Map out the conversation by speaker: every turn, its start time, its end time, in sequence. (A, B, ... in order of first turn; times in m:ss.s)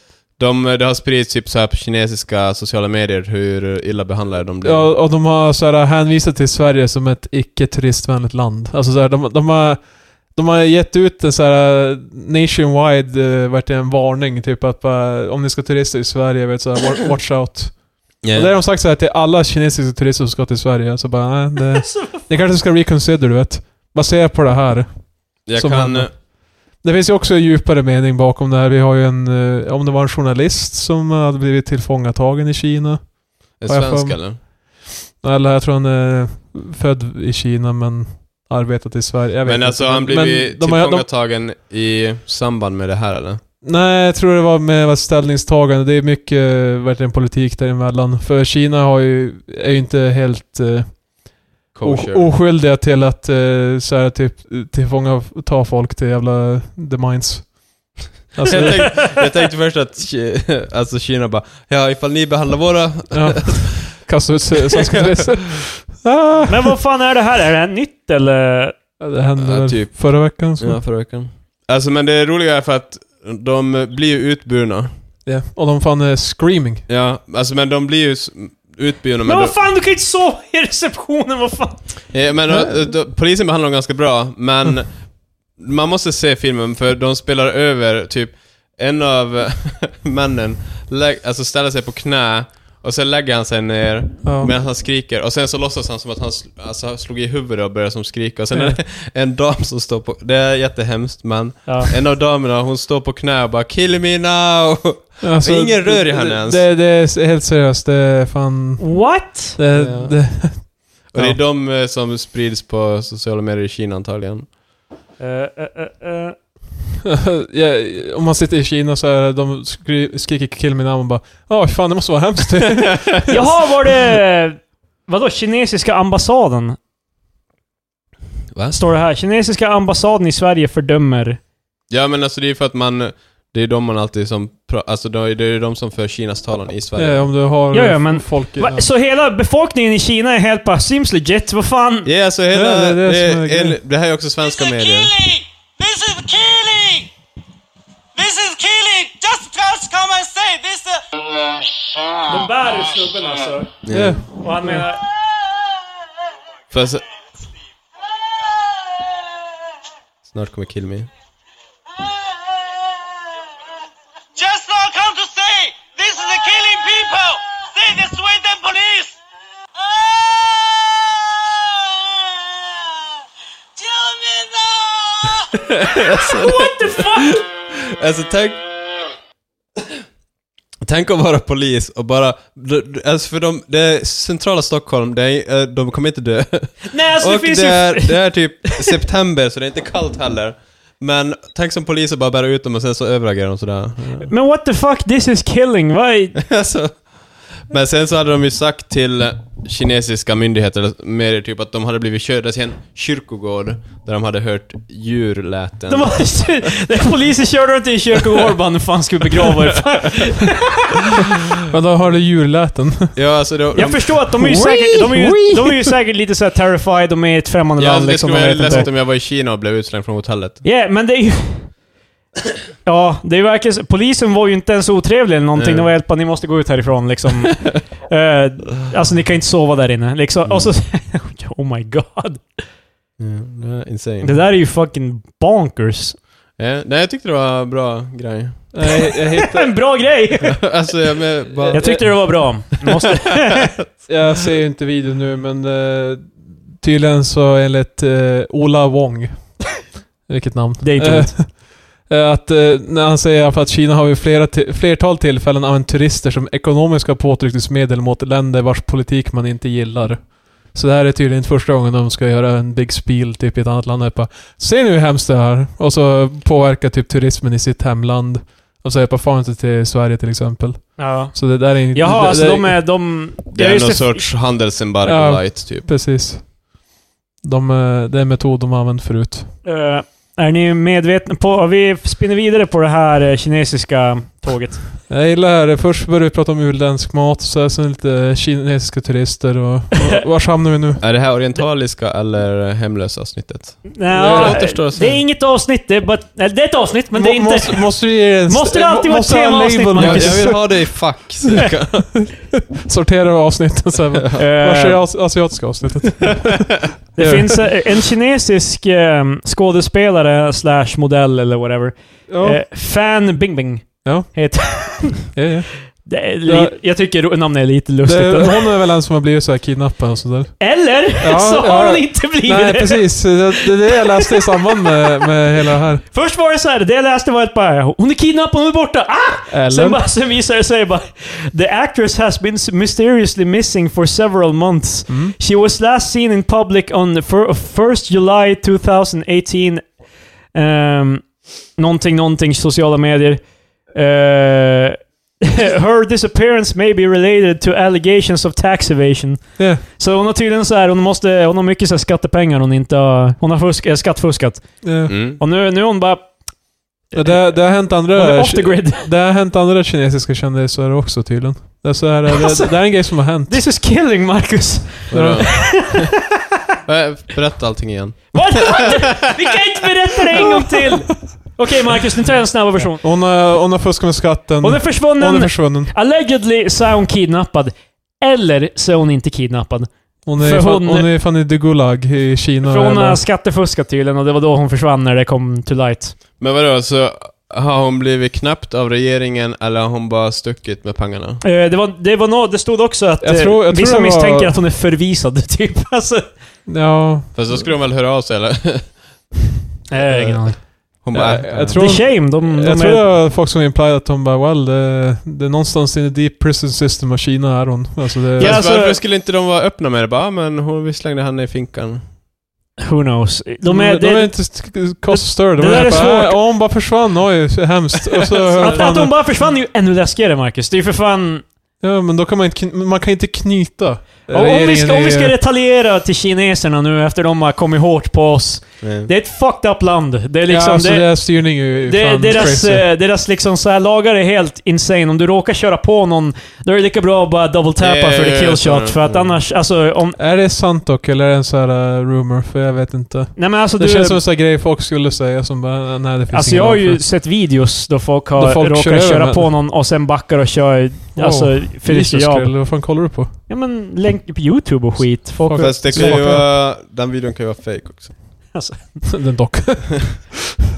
0:00.4-0:04.9 A
0:04.6-0:41.1 B
0:18.2-0:18.5 A
0:21.8-0:22.2 C
0:25.4-0:26.1 A
0:33.6-0:34.4 A
0:39.4-0:43.4 A
0:43.6-0:58.9 B
0:51.7-0:52.3 A
0:58.4-1:03.8 A
0:58.5-0:59.2 C
1:03.1-1:06.7 B
1:04.7-1:05.3 A
1:06.5-1:08.8 C
1:09.0-1:10.8 B
1:09.4-1:14.9 A
1:15.2-1:16.8 B
1:16.9-1:19.6 A
1:19.2-1:22.0 C
1:22.1-1:24.9 A
1:25.6-1:46.6 A
1:34.2-1:34.5 B
1:38.5-1:38.8 B
1:41.6-1:41.9 C
1:45.2-1:48.9 B
1:48.8-1:49.6 C
1:49.5-1:51.4 B
1:49.7-1:50.2 A
1:51.1-1:54.5 A
1:55.2-1:56.4 C
1:57.0-2:03.5 B
2:02.6-2:03.3 A
2:03.3-2:06.8 C
2:08.5-2:08.8 A
2:08.7-2:11.4 C
2:11.9-2:17.3 A
2:17.0-2:18.8 B
2:17.7-2:22.1 C
2:22.0-2:25.2 A
2:22.5-2:23.8 B
2:26.1-2:27.0 D
2:28.2-2:30.8 D
2:28.8-2:29.4 C
2:32.2-2:33.8 C
2:33.8-2:34.2 A
2:33.9-2:34.8 B
2:34.4-2:35.0 C
2:36.7-2:37.0 A
2:40.2-2:41.1 A
2:44.5-2:49.1 D
2:53.9-2:55.1 D
2:55.4-2:58.6 A
2:56.0-2:57.4 C
3:00.8-3:14.3 A
3:06.9-3:08.9 C
3:14.2-3:16.4 C
3:16.4-3:17.0 A
3:17.7-3:26.2 A
3:25.9-3:31.0 C
3:31.7-3:33.1 B
3:33.1-3:34.1 A
3:33.7-3:38.9 C
3:34.4-3:35.9 B
3:37.8-3:40.6 A
3:40.6-3:41.7 C
3:42.8-3:52.6 C
3:45.5-3:45.9 A
3:53.2-3:54.4 A
3:54.2-3:56.2 C
3:56.6-3:58.7 A
3:58.7-3:59.7 B
3:58.9-4:00.6 C
4:00.4-4:02.2 A
4:01.5-4:02.1 B
4:01.7-4:03.7 C
4:04.1-4:09.6 B
4:10.3-4:32.8 B
4:10.8-4:11.4 C
4:31.0-4:34.2 C
4:33.5-4:35.9 A
4:35.0-4:36.6 B
4:37.4-4:39.5 B
4:39.6-4:44.8 C
4:45.1-4:51.0 B
4:51.0-4:55.2 A
4:53.9-5:00.6 C
4:54.2-4:54.6 B
4:57.1-5:00.9 B
5:00.0-5:02.1 A
5:02.1-5:07.6 B
5:04.4-5:05.0 C
5:07.2-5:15.3 C
5:12.3-5:12.6 B
5:14.0-5:14.3 B
5:15.3-5:15.7 B
5:16.0-5:18.7 C
5:16.4-5:16.7 B
5:18.0-5:20.5 B
5:20.6-5:24.6 C
5:21.2-5:26.0 B
5:26.0-5:39.8 C
5:29.5-5:30.0 B
5:35.1-5:35.3 B
5:40.5-5:56.3 C
5:49.6-5:49.8 B
5:54.8-5:55.1 B
5:55.1-5:55.4 A
5:57.1-6:03.6 B
5:57.2-5:59.1 C
6:02.3-6:06.4 C
6:05.1-6:06.1 A
6:05.1-6:05.6 B
6:06.8-6:09.6 A
6:08.3-6:13.0 C
6:13.0-6:15.9 B
6:14.6-6:21.1 C
6:20.2-6:23.2 B
6:22.6-6:26.2 C
6:26.4-6:31.4 A
6:31.4-6:36.2 C
6:33.2-6:34.5 B
6:36.7-6:37.6 B
6:37.3-6:39.0 A
6:39.9-6:40.6 C
6:40.1-6:40.6 B
6:41.0-6:41.8 A
6:41.1-6:48.6 B
6:41.7-6:43.0 C
6:48.4-6:49.0 C
6:48.4-6:52.0 A
6:52.8-6:56.4 C
6:53.6-6:59.1 B
6:58.3-7:01.4 C
7:01.8-7:05.3 B
7:04.3-7:20.2 C
7:08.8-7:09.1 A
7:10.5-7:12.8 B
7:17.8-7:19.4 A
7:20.2-7:27.0 B
7:23.4-7:24.2 C
7:26.3-7:32.6 C
7:28.4-7:29.5 B
7:31.2-7:33.3 B
7:33.5-7:36.4 C
7:35.4-7:36.4 B
7:35.6-7:38.2 A
7:38.5-7:39.0 C
7:39.1-7:40.4 B